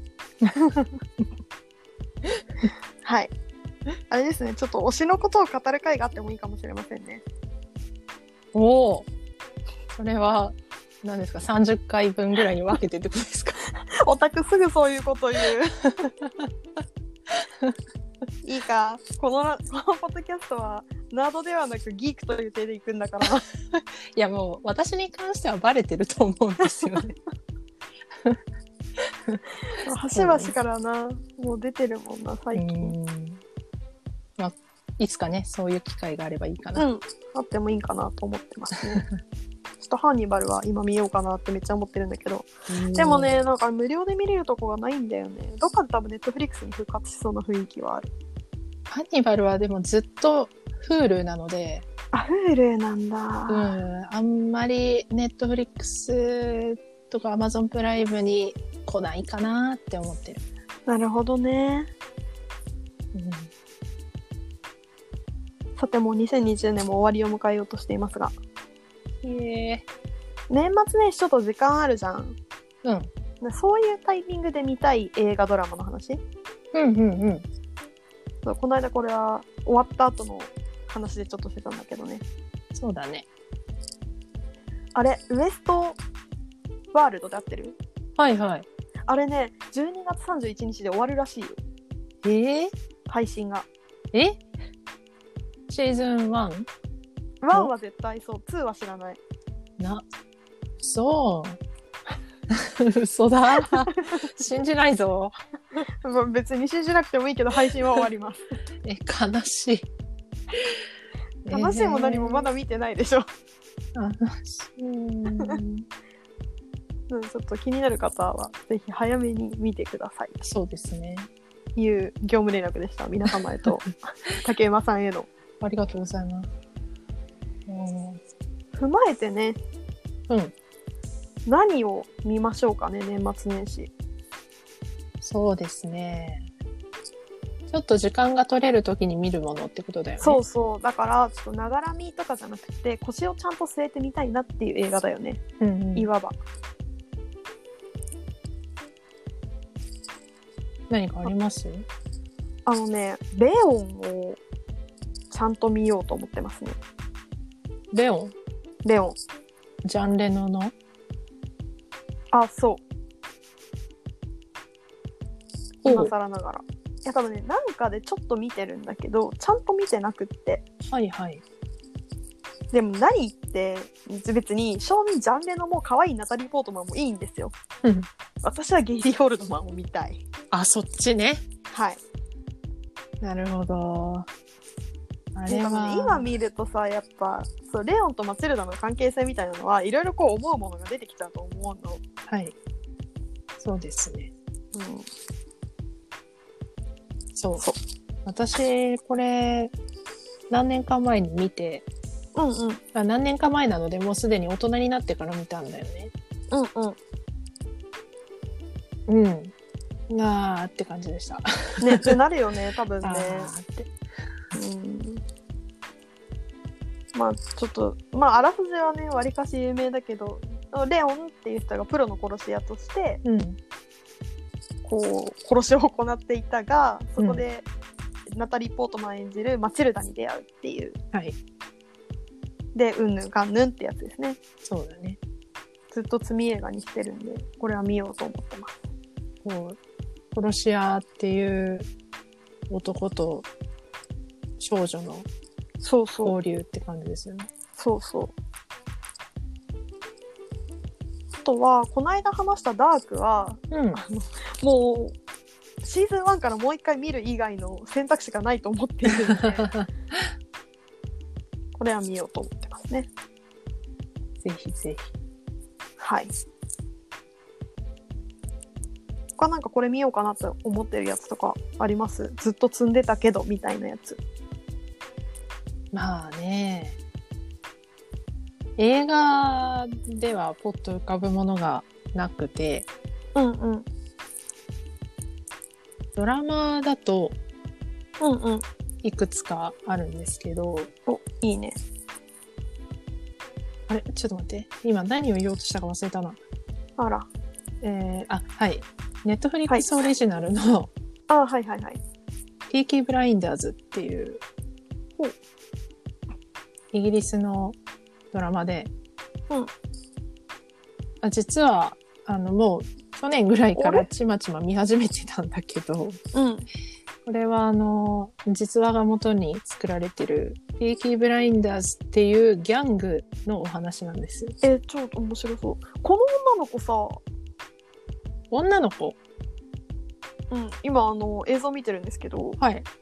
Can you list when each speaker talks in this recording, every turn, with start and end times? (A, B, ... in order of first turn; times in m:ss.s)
0:00.5-0:00.9 A
0:03.0-0:03.3 A
0:04.1-0:07.2 A
0:08.5-0:09.1 B
0:09.9-0:13.6 B
0:13.9-0:15.8 A
0:17.3-0:17.8 B
0:18.4-0:23.4 A
0:23.8-0:27.2 B
0:29.8-0:32.9 A
0:30.1-0:30.5 B
0:32.6-0:33.4 B
0:34.4-0:36.9 B
0:36.8-0:39.0 A
0:39.8-0:48.1 A
0:42.7-0:43.4 B
0:48.9-0:51.9 B
0:52.1-0:53.8 A
0:53.5-1:00.4 B
1:00.9-1:01.9 A
1:03.1-1:03.5 B
1:05.8-1:08.4 A
1:09.2-1:09.8 B
1:10.5-1:12.4 A
1:12.8-1:13.1 B
1:13.4-1:16.2 A
1:16.7-1:17.4 B
1:18.4-1:22.2 A
1:22.7-1:23.3 B
1:25.0-1:26.0 A
1:26.9-1:27.8 A
1:28.2-1:28.7 B
1:29.1-1:31.6 A
1:32.2-1:32.7 B
1:33.1-1:33.7 A
1:34.1-1:34.4 B
1:35.7-1:36.7 B
1:37.4-1:39.2 A
1:39.8-1:40.0 B
1:40.8-1:41.6 B
1:42.5-1:45.4 B
1:46.0-1:48.4 A
1:48.8-1:49.9 B
1:51.4-1:52.5 B
1:51.5-1:53.3 A
1:54.0-1:55.9 B
1:57.1-2:00.4 A
2:00.4-2:01.3 B
2:01.8-2:05.3 A
2:05.6-2:06.5 B
2:07.7-2:08.2 B
2:08.8-2:09.6 A
2:11.5-2:13.9 A
2:15.2-2:16.5 B
2:17.7-2:20.4 B
2:20.2-2:25.4 A
2:25.6-2:26.1 B
2:26.0-2:26.4 A
2:30.9-2:31.9 B
2:32.7-2:34.4 A
2:35.3-2:36.8 A
2:37.9-2:38.4 B
2:38.8-2:39.2 A
2:39.8-2:40.7 B
2:42.3-2:42.8 A
2:45.8-2:46.1 B
2:45.8-2:50.6 A
2:50.9-2:51.4 B
2:52.7-2:57.5 A
2:58.4-3:00.2 A
3:00.5-3:01.4 B
3:01.7-3:02.0 A
3:03.2-3:04.3 B
3:05.3-3:06.3 B
3:05.5-3:12.0 A
3:12.3-3:12.6 B
3:13.6-3:14.3 B
3:14.7-3:15.1 A
3:17.4-3:17.7 B
3:18.2-3:19.7 B
3:20.5-3:21.8 B
3:22.4-3:22.8 A
3:22.9-3:26.1 B
3:26.5-3:27.0 A
3:29.1-3:29.5 B
3:30.1-3:32.2 B
3:31.8-3:33.5 A
3:33.0-3:33.9 B
3:34.5-3:35.2 A
3:37.1-3:43.2 A
3:43.2-3:43.6 B
3:44.8-3:47.7 A
3:48.3-3:51.0 A
3:52.7-3:54.4 A
3:54.6-3:55.2 B
3:55.9-3:58.8 A
3:59.4-3:59.8 B
4:00.3-4:01.9 B
4:02.7-4:03.5 B
4:04.6-4:05.3 B
4:05.8-4:06.3 A
4:06.2-4:07.5 B
4:07.8-4:08.3 A
4:11.4-4:15.2 A
4:13.7-4:14.0 B
4:15.8-4:19.7 A
4:19.3-4:19.9 B
4:21.8-4:23.1 A
4:24.4-4:25.1 B
4:26.0-4:26.3 A
4:29.4-4:34.2 A
4:35.9-4:37.0 B
4:38.8-4:42.9 B
4:43.4-4:43.9 A
4:46.1-4:47.4 B
4:48.2-4:48.6 A
4:49.0-4:50.9 B
4:51.1-4:51.8 A
4:53.9-4:56.4 B
4:57.0-4:57.3 A
4:57.8-5:00.9 B
4:59.7-5:00.0 A
5:01.3-5:02.0 A
5:02.7-5:04.4 B
5:06.9-5:07.8 B
5:08.3-5:08.9 B
5:11.2-5:16.2 B
5:13.8-5:14.1 A
5:16.3-5:16.7 A
5:17.3-5:24.6 B
5:24.6-5:27.2 A
5:28.5-5:29.2 B
5:30.5-5:32.6 A
5:32.6-5:32.9 B